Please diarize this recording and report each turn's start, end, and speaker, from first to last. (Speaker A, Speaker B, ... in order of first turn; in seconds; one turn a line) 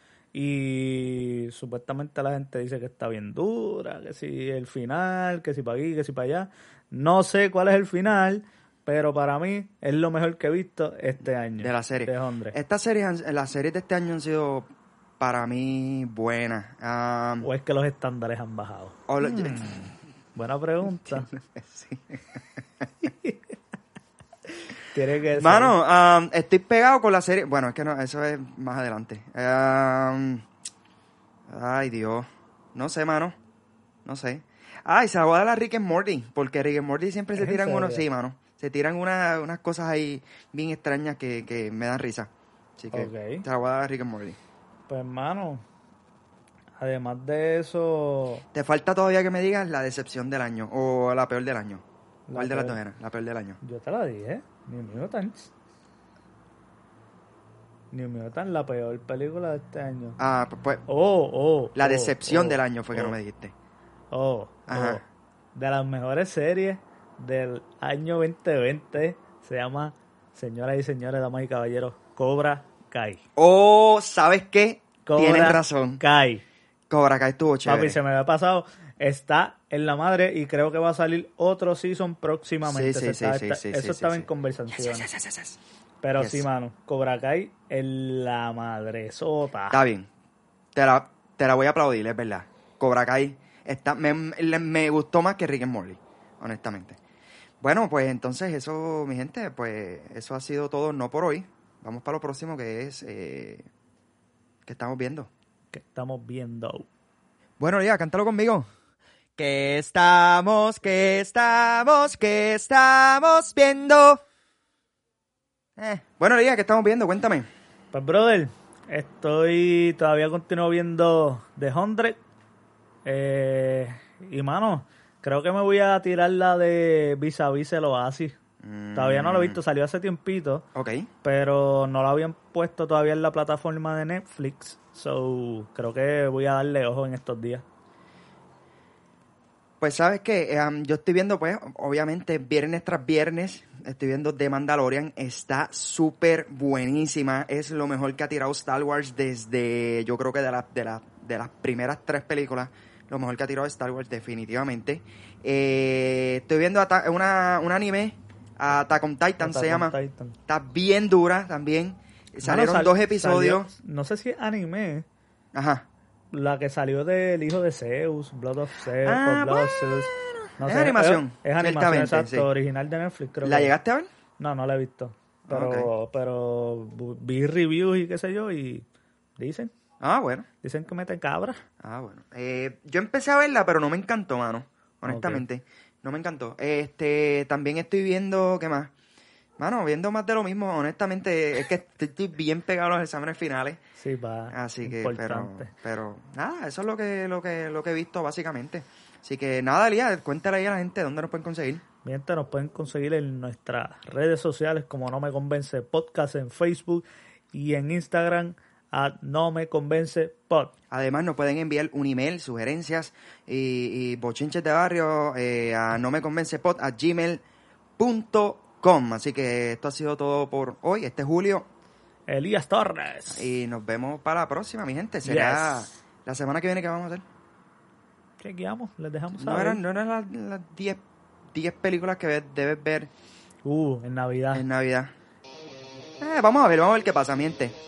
Speaker A: 0.3-12.6
Speaker B: 11.6-14.7
Speaker B: 15.2-17.5
Speaker A: 17.4-21.3
Speaker B: 19.1-19.8
Speaker B: 21.0-22.9
Speaker A: 23.0-23.4
Speaker A: 24.8-25.7
Speaker B: 25.4-30.4
Speaker B: 31.5-33.4
Speaker B: 34.0-44.4
Speaker A: 37.4-38.0
Speaker A: 42.9-43.5
Speaker A: 44.9-45.6
Speaker A: 46.8-48.5
Speaker B: 48.5-51.8
Speaker A: 52.3-52.8
Speaker B: 52.3-53.6
Speaker A: 53.6-55.5
Speaker A: 57.9-60.2
Speaker B: 60.2-60.8
Speaker A: 60.9-63.2
Speaker B: 61.8-63.5
Speaker A: 64.1-65.0
Speaker B: 64.7-65.0
Speaker A: 65.5-73.2
Speaker B: 73.4-76.0
Speaker A: 75.0-76.4
Speaker B: 76.9-78.0
Speaker A: 77.7-85.1
Speaker B: 82.6-85.6
Speaker A: 86.0-89.8
Speaker B: 86.2-86.5
Speaker B: 89.7-90.1
Speaker B: 90.7-97.0
Speaker B: 97.6-103.7
Speaker B: 104.6-105.3
Speaker A: 105.7-106.9
Speaker B: 107.6-108.7
Speaker B: 109.4-114.2
Speaker B: 115.8-117.5
Speaker A: 117.9-122.2
Speaker A: 123.0-128.4
Speaker B: 128.6-129.6
Speaker A: 128.9-130.7
Speaker B: 130.7-131.1
Speaker A: 131.2-137.6
Speaker B: 139.8-159.9
Speaker A: 159.4-160.4
Speaker B: 160.5-163.7
Speaker A: 162.4-165.1
Speaker B: 165.5-165.9
Speaker A: 166.3-173.7
Speaker B: 169.0-172.5
Speaker B: 173.4-174.1
Speaker A: 174.4-178.8
Speaker B: 175.5-175.9
Speaker A: 179.4-179.7
Speaker B: 180.0-180.4
Speaker A: 180.6-181.6
Speaker B: 181.8-188.9
Speaker A: 185.1-185.4
Speaker B: 189.6-193.8
Speaker A: 194.0-195.7
Speaker B: 194.5-201.8
Speaker A: 202.0-210.7
Speaker B: 210.9-217.4
Speaker B: 218.0-221.7
Speaker A: 222.3-223.4
Speaker B: 223.3-227.2
Speaker A: 225.2-225.8
Speaker A: 228.4-229.8
Speaker B: 229.3-231.0
Speaker B: 231.5-233.1
Speaker A: 233.6-234.6
Speaker B: 234.5-235.1
Speaker B: 236.2-237.7